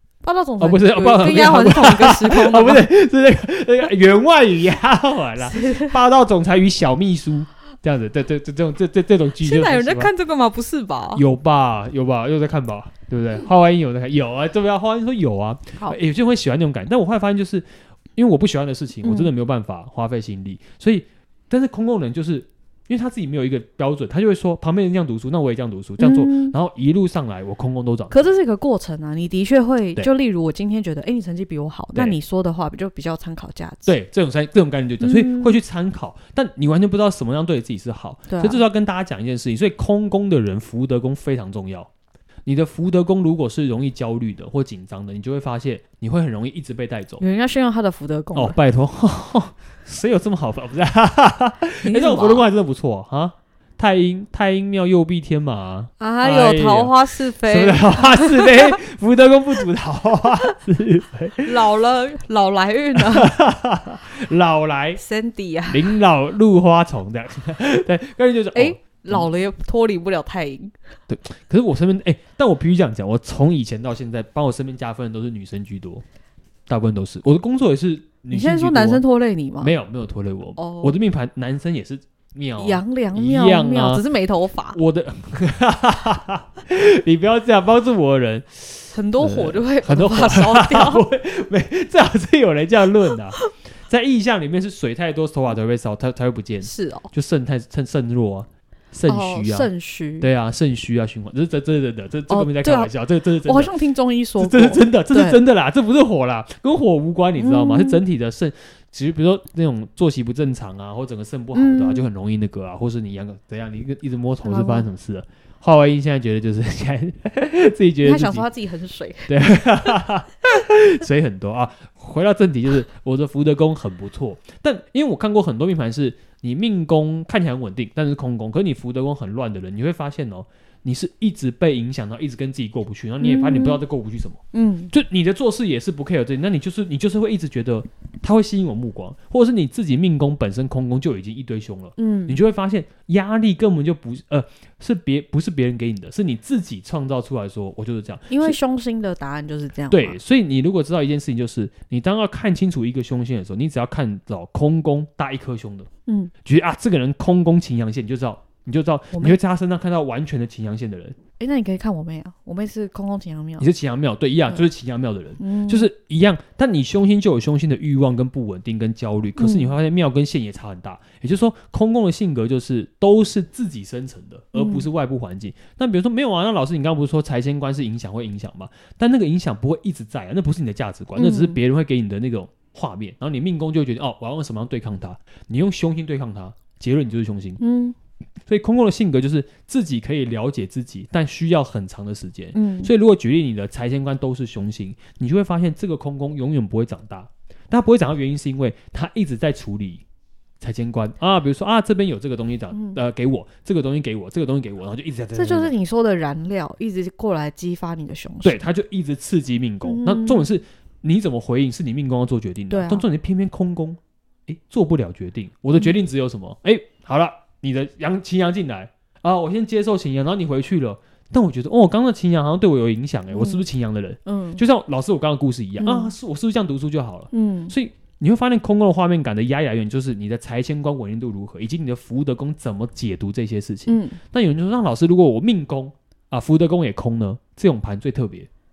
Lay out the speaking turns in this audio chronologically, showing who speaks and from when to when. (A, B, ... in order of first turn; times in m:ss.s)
0:00.2-0:02.8 A
0:00.6-0:10.1 B
0:05.4-0:06.0 A
0:09.4-0:11.2 A
0:11.1-0:28.3 B
0:19.0-0:19.3 A
0:26.0-0:26.5 A
0:28.1-0:33.9 A
0:33.8-0:41.9 B
0:35.0-0:35.6 A
0:38.3-0:38.6 A
0:42.4-0:47.2 B
0:47.2-0:48.6 A
0:48.3-1:01.6 B
0:51.8-0:52.5 A
0:56.0-0:58.8 A
1:01.4-1:03.4 A
1:03.0-1:05.0 B
1:05.0-1:05.9 A
1:05.7-1:09.3 B
1:08.5-1:10.8 A
1:11.1-1:16.0 B
1:16.7-1:19.0 B
1:18.3-1:19.7 A
1:19.6-1:24.0 B
1:20.6-1:21.0 A
1:22.6-1:24.8 A
1:24.7-1:43.7 B
1:28.9-1:31.0 A
1:36.6-1:37.1 A
1:39.1-1:40.3 A
1:42.3-1:42.9 A
1:43.4-1:45.4 A
1:44.4-1:58.4 B
1:47.4-1:48.0 A
1:51.5-1:52.1 A
1:54.4-1:54.9 A
1:58.0-2:00.0 A
1:59.3-2:28.6 B
2:13.2-2:13.8 A
2:14.5-2:14.9 A
2:22.0-2:22.4 A
2:28.3-2:30.2 A
2:29.9-2:35.9 B
2:36.1-2:36.3 A
2:36.4-2:41.2 B
2:39.1-2:39.4 A
2:41.4-2:43.7 A
2:43.6-3:07.6 B
2:45.4-2:45.9 A
2:49.4-2:49.7 A
2:54.5-2:54.9 A
3:01.2-3:01.6 A
3:07.6-3:08.0 A
3:08.5-3:20.0 B
3:12.5-3:12.9 A
3:20.6-3:25.7 B
3:22.7-3:23.0 A
3:25.3-3:28.6 A
3:28.4-3:58.5 B
3:29.8-3:30.5 A
3:32.7-3:33.0 A
3:43.3-3:43.6 A
3:44.2-3:44.6 A
3:45.8-3:46.1 A
3:47.3-3:47.7 A
3:53.9-3:54.2 A